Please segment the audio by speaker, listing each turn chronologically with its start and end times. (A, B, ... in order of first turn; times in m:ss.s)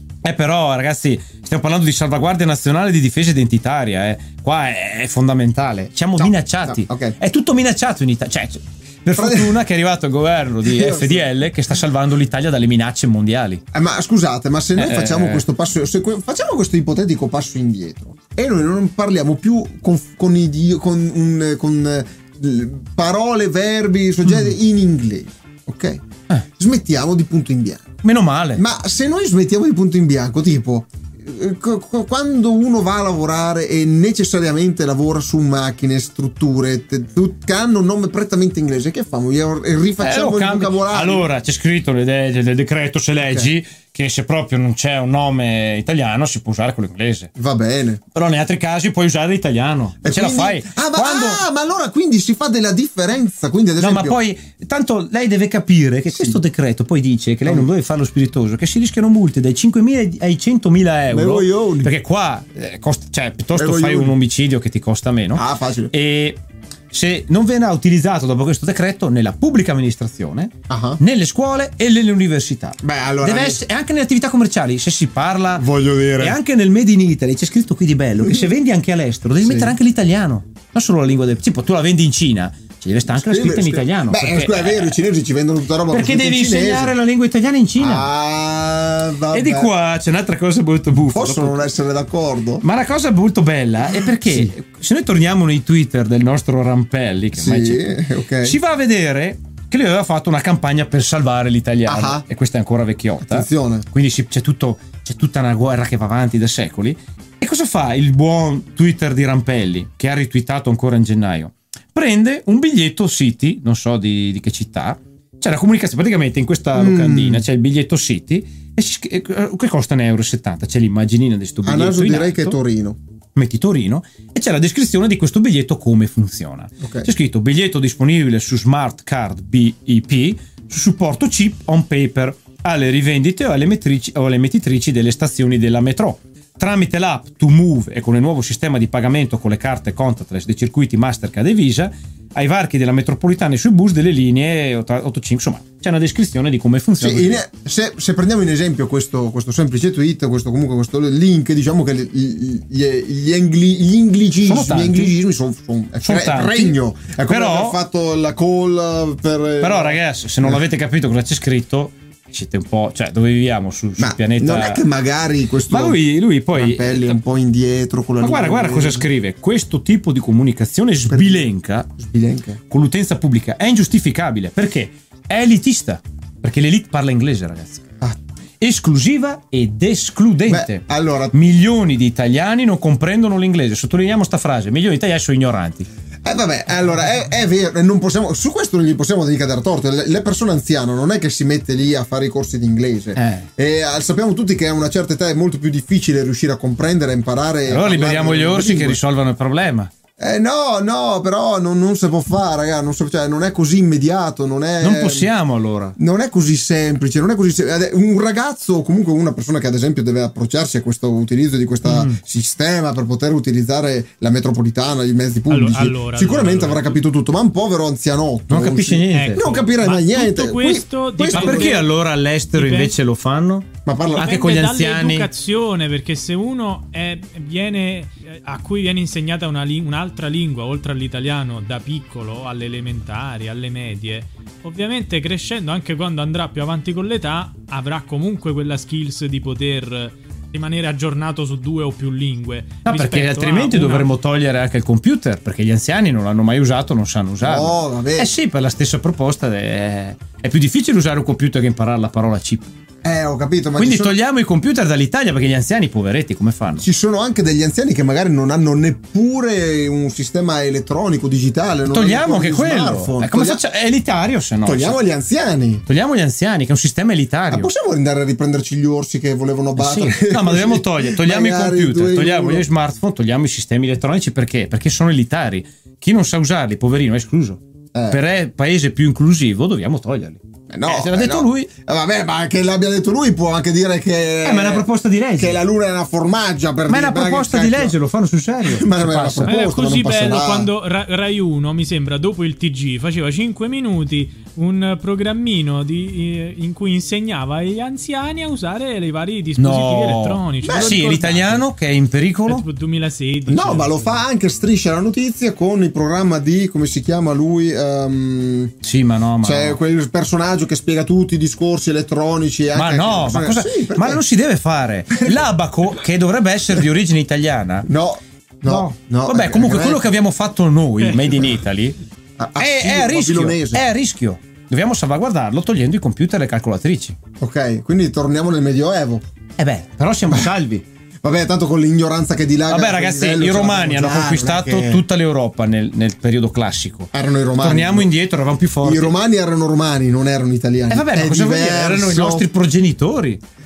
0:00.2-0:13.6 A
0:06.2-0:07.2 B
0:09.2-0:09.6 B
0:10.6-0:11.4 B
0:13.7-0:26.0 B
0:14.8-0:15.4 A
0:24.2-0:24.5 A
0:26.6-0:27.9 B
0:28.0-0:28.6 A
0:28.5-0:41.3 B
0:40.0-0:47.3 A
0:43.2-0:43.5 B
0:47.4-0:48.0 B
0:48.1-0:51.4 A
0:50.0-0:54.2 B
0:53.8-1:06.4 A
0:56.1-0:56.4 B
1:01.1-1:01.9 B
1:03.6-1:04.2 B
1:05.3-1:05.9 B
1:06.9-1:25.0 A
1:10.7-1:11.0 B
1:12.8-1:13.6 B
1:15.6-1:16.4 B
1:18.2-1:18.5 B
1:19.4-1:19.8 B
1:23.1-1:27.0 B
1:25.9-1:28.1 A
1:27.8-1:29.7 B
1:29.3-1:31.6 A
1:30.9-1:32.6 B
1:32.6-1:37.8 A
1:33.8-1:34.5 B
1:37.4-1:38.6 B
1:38.4-2:02.6 A
1:41.8-1:42.2 B
1:43.2-1:43.8 B
1:56.7-1:57.4 B
2:01.6-2:03.0 B
2:03.4-2:27.4 A
2:06.8-2:07.1 B
2:27.0-2:40.6 B
2:34.5-2:35.1 A
2:36.0-2:37.8 A
2:39.6-2:44.8 A
2:44.0-2:46.0 B
2:45.7-2:47.2 A
2:46.5-2:49.1 B
2:48.2-2:51.9 A
2:51.1-2:52.6 B
2:52.7-2:57.8 A
2:58.6-3:05.9 A
3:00.5-3:01.4 B
3:06.2-3:19.0 B
3:13.2-3:13.4 A
3:17.7-3:19.9 A
3:20.2-3:25.3 B
3:24.8-3:26.0 A
3:26.0-3:41.8 B
3:31.8-3:32.2 A
3:35.5-3:37.0 C
3:38.5-3:39.4 A
3:39.1-3:41.9 C
3:41.3-3:45.3 A
3:42.5-3:43.0 C
3:43.8-3:44.4 B
3:44.2-4:04.1 C
4:02.8-4:12.7 A
4:07.4-4:08.3 B
4:13.0-4:14.2 B
4:13.8-4:16.8 A
4:16.8-4:23.6 B
4:21.8-4:25.0 A
4:24.6-4:25.8 B
4:25.8-4:27.7 A
4:27.5-4:32.7 B
4:29.8-4:41.7 A
4:37.9-4:38.2 B
4:40.7-4:48.0 B
4:44.4-4:45.6 A
4:46.9-4:49.6 A
4:48.6-4:50.7 B
4:49.4-5:01.7 C
4:59.6-5:02.6 A
5:00.6-5:01.0 B
5:02.5-5:04.2 C
5:03.5-5:08.7 B
5:08.8-5:09.8 A
5:09.4-5:14.2 B
5:12.7-5:17.9 A
5:15.1-5:15.5 B
5:17.8-5:20.1 B
5:18.6-5:22.0 A
5:21.0-5:21.4 C
5:22.4-5:23.8 B
5:22.6-5:27.2 A
5:27.4-5:29.2 B
5:29.6-5:30.8 A
5:31.2-5:35.0 B
5:32.7-5:39.1 A
5:37.1-5:38.1 B
5:38.8-5:42.5 B
5:40.9-5:43.4 A